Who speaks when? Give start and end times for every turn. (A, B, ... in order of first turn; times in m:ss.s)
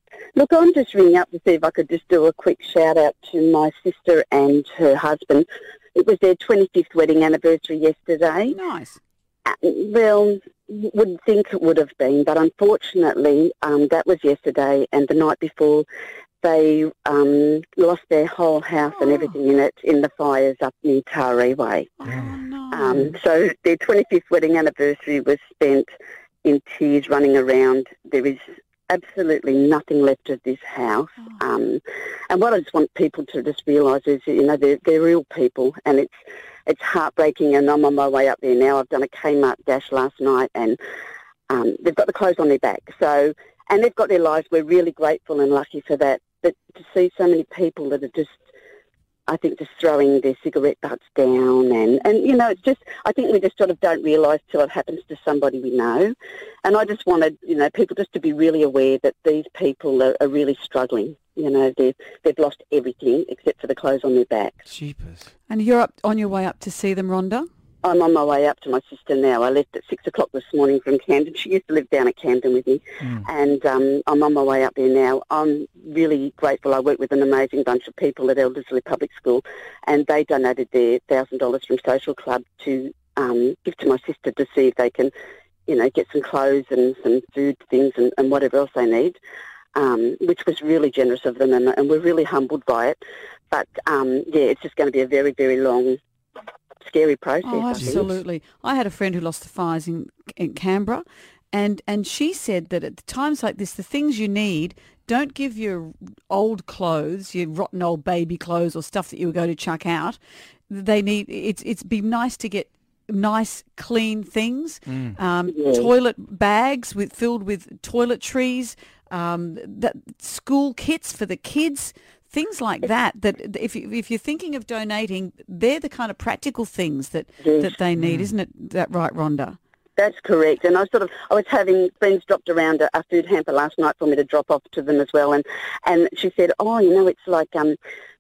0:00.4-0:08.6 A
0:08.5-0:09.0 B
0:09.4-0:15.9 A
0:16.4-0:22.2 A
0:18.9-0:19.4 B
0:22.0-0:23.1 B
0:22.1-0:22.4 C
0:22.7-0:25.9 A
0:26.4-0:40.8 A
0:41.5-0:48.4 A
0:49.3-1:04.6 A
1:04.7-1:05.3 C
1:05.5-1:07.5 B
1:07.8-1:25.1 A
1:13.0-1:13.3 C
1:25.7-1:29.2 A
1:29.7-1:33.0 A
1:33.5-1:36.0 A
1:36.8-1:38.1 A
1:37.4-2:09.6 B
1:37.8-1:38.2 C
1:54.9-1:55.2 C
1:55.5-1:55.9 A
2:07.4-2:07.7 A
2:08.0-2:08.3 C
2:10.0-2:17.8 A